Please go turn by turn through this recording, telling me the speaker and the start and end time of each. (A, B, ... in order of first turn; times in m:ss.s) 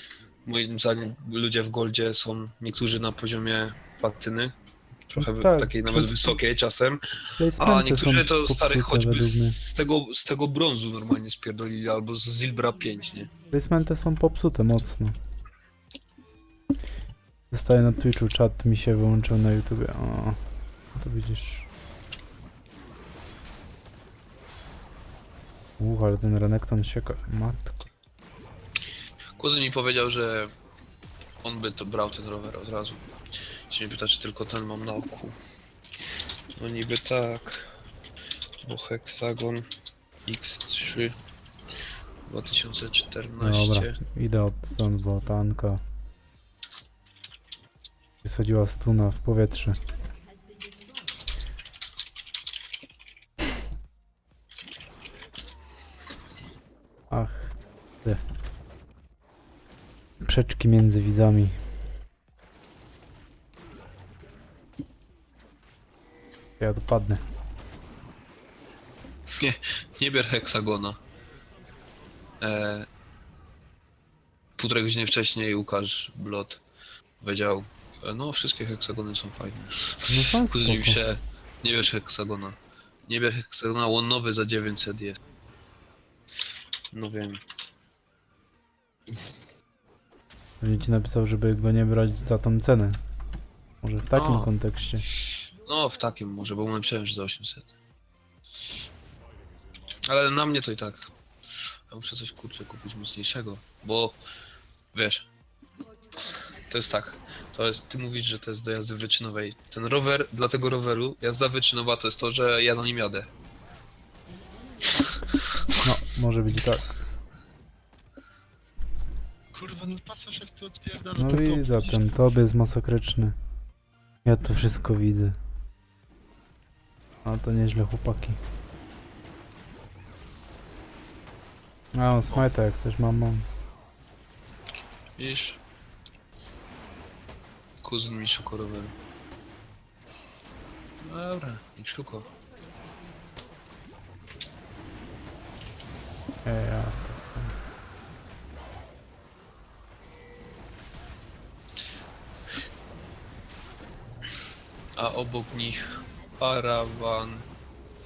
0:00.4-0:04.5 A
0:05.1-0:13.3 A
0:05.1-0:06.4 B
0:07.4-0:09.6 B
0:13.5-0:15.2 B
0:17.5-0:20.4 B
0:20.9-0:21.7 B
0:25.8-0:27.9 B
0:29.4-0:30.5 A
0:31.4-0:33.0 A
0:33.7-0:35.4 A
0:36.6-0:37.7 A
0:38.6-0:39.6 A
0:40.2-0:41.2 A
0:42.2-0:44.0 A
0:43.4-0:45.8 B
0:48.2-0:49.8 B
0:57.1-0:58.2 B
1:00.2-1:01.8 B
1:06.6-1:07.2 B
1:09.3-1:11.0 A
1:12.4-1:12.9 A
1:14.6-1:16.6 A
1:17.2-1:25.2 A
1:20.1-1:21.0 B
1:26.9-1:27.4 A
1:30.6-1:33.0 B
1:33.8-1:35.0 B
1:34.1-1:34.5 A
1:35.6-1:37.7 A
1:40.0-1:41.1 A
1:41.9-1:44.2 A
1:44.9-1:45.3 A
1:46.6-1:53.3 A
1:55.8-1:57.0 B
1:59.5-2:02.0 C
2:01.2-2:03.4 B
2:04.2-2:05.4 B
2:07.2-2:08.4 B
2:11.9-2:13.5 B
2:15.2-2:15.6 A
2:17.8-2:18.9 A
2:21.0-2:22.3 A
2:26.4-2:27.5 B
2:35.0-2:37.5 A